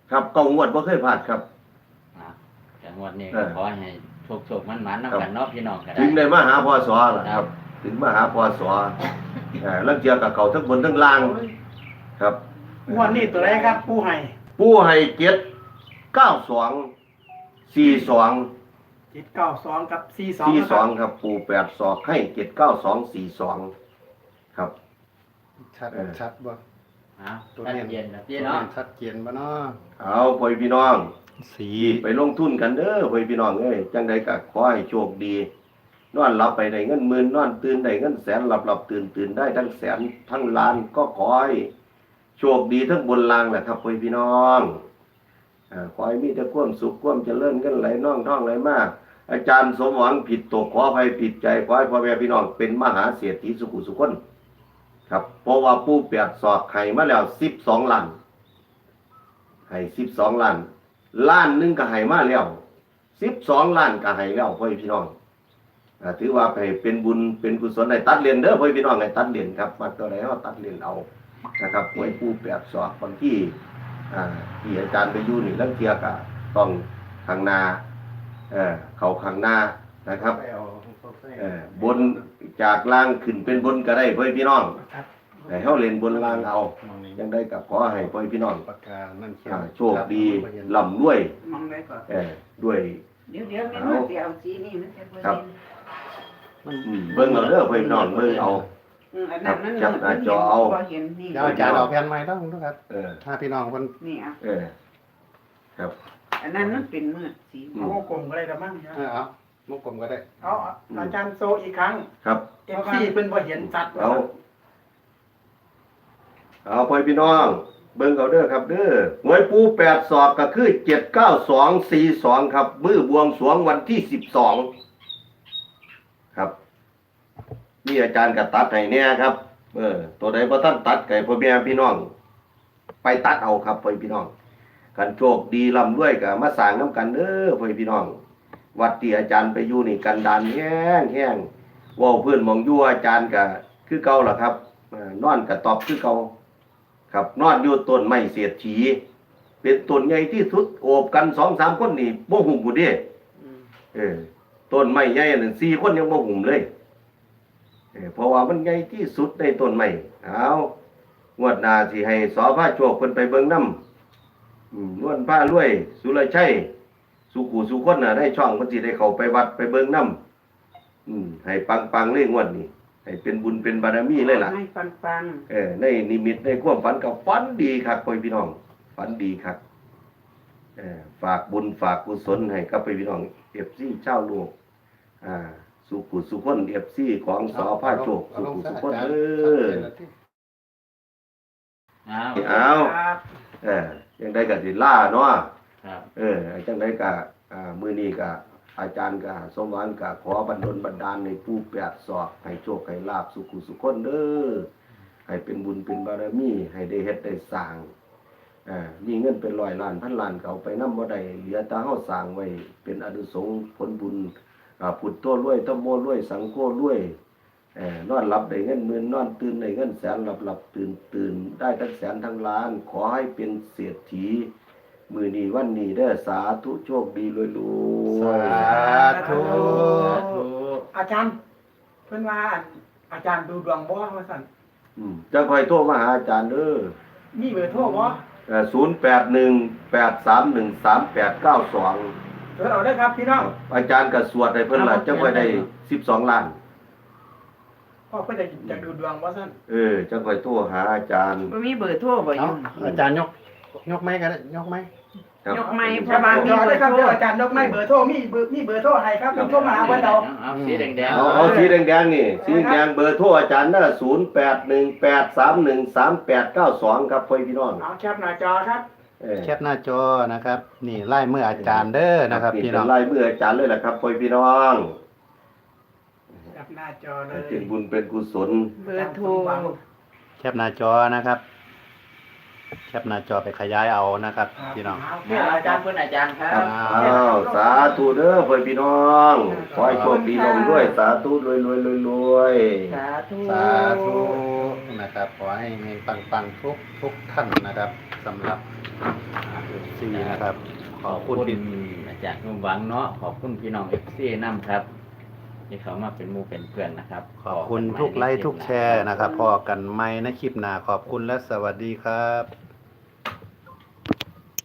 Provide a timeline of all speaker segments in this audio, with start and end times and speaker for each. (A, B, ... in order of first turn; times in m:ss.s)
0:00.1-0:01.4 A
0:02.2-0:06.2 B
0:06.0-0:09.0 A
0:09.6-0:11.5 A
0:12.2-0:13.7 A
0:12.9-0:14.3 C
0:14.6-0:15.4 A
0:16.1-0:16.9 A
0:17.7-0:18.5 A
0:19.1-0:20.9 C
0:20.4-0:23.7 A
0:25.6-0:26.6 D
0:27.2-0:28.7 B
0:27.6-0:29.8 D
0:30.0-0:31.1 A
0:31.4-0:32.0 D
0:31.8-0:35.5 A
0:36.1-0:41.7 A
0:42.4-0:44.8 A
0:45.7-0:54.2 A
0:55.1-0:58.2 A
0:59.7-1:02.6 A
1:03.2-1:05.1 A
1:06.0-1:11.1 A
1:11.6-1:13.6 A
1:14.1-1:17.8 A
1:18.5-1:20.4 A
1:20.1-1:22.3 D
1:21.4-1:24.8 A
1:24.8-1:27.2 D
1:25.4-1:25.7 C
1:25.5-1:28.6 A
1:27.9-1:30.9 D
1:29.5-1:31.3 A
1:31.4-1:32.1 E
1:32.1-1:33.0 A
1:33.3-1:35.6 E
1:33.7-1:34.1 A
1:36.6-1:38.7 D
1:36.8-1:38.6 A
1:39.1-1:41.7 E
1:39.4-1:40.8 A
1:41.3-1:43.9 D
1:41.4-1:41.9 A
1:42.9-1:43.2 A
1:44.0-1:44.4 E
1:44.4-1:44.7 A
1:46.4-1:48.0 E
1:47.8-1:49.0 C
1:48.9-1:50.6 D
1:50.4-1:52.1 C
1:52.2-1:52.6 A
1:52.7-1:53.1 E
1:52.7-1:54.3 C
1:53.6-1:54.3 A
1:56.6-2:04.7 A
2:07.8-2:12.1 A
2:13.0-2:14.3 A
2:15.0-2:18.2 A
2:18.8-2:26.3 A
2:27.1-2:29.0 A
2:29.6-2:33.0 A
2:33.9-2:36.7 A
2:38.0-2:40.7 A
2:41.4-2:43.8 A
2:44.7-2:46.7 A
2:47.3-2:50.2 A
2:51.1-2:54.5 A
2:54.2-2:55.5 E
2:55.5-2:59.6 A
3:00.8-3:04.5 A
3:05.2-3:09.9 A
3:07.5-3:10.1 D
3:12.1-3:12.6 B
3:12.4-3:13.0 A
3:12.4-3:13.2 C
3:13.6-3:15.5 A
3:15.8-3:16.1 B
3:16.2-3:24.7 A
3:25.3-3:27.9 A
3:28.7-3:37.2 A
3:37.8-3:44.5 A
3:45.1-3:48.7 A
3:48.1-3:50.2 D
3:48.5-3:50.2 C
3:48.7-3:50.9 B
3:50.9-3:51.4 C
3:52.1-3:54.5 C
3:55.0-3:56.9 A
3:57.3-3:58.2 C
3:58.5-4:02.1 A
4:02.6-4:03.5 C
4:03.3-4:06.6 A
4:04.7-4:05.7 B
4:08.1-4:09.6 C
4:09.7-4:11.5 A
4:11.5-4:12.8 E
4:12.3-4:14.9 D
4:15.4-4:16.6 A
4:15.5-4:17.2 E
4:15.6-4:20.3 C
4:17.5-4:17.8 A
4:19.3-4:20.1 A
4:19.3-4:21.7 B
4:20.5-4:21.7 D
4:21.1-4:27.8 A
4:21.2-4:21.8 C
4:22.4-4:22.8 C
4:27.8-4:28.9 C
4:29.2-4:29.5 A
4:29.4-4:32.9 D
4:31.6-4:35.0 A
4:36.5-4:37.7 C
4:37.3-4:38.8 A
4:38.8-4:39.8 E
4:38.8-4:39.8 C
4:40.4-4:41.4 D
4:42.9-4:45.0 D
4:44.6-4:45.8 C
4:45.2-4:46.7 B
4:46.5-4:53.0 A
4:46.5-4:47.4 D
4:46.9-4:48.1 C
4:49.5-4:51.0 E
4:49.7-4:50.0 C
4:49.8-4:50.2 D
4:52.9-4:54.4 E
4:53.4-4:58.6 D
4:59.4-5:00.4 B
4:59.7-5:01.6 D
5:01.0-5:04.9 B
5:05.7-5:09.3 B
5:07.4-5:12.5 D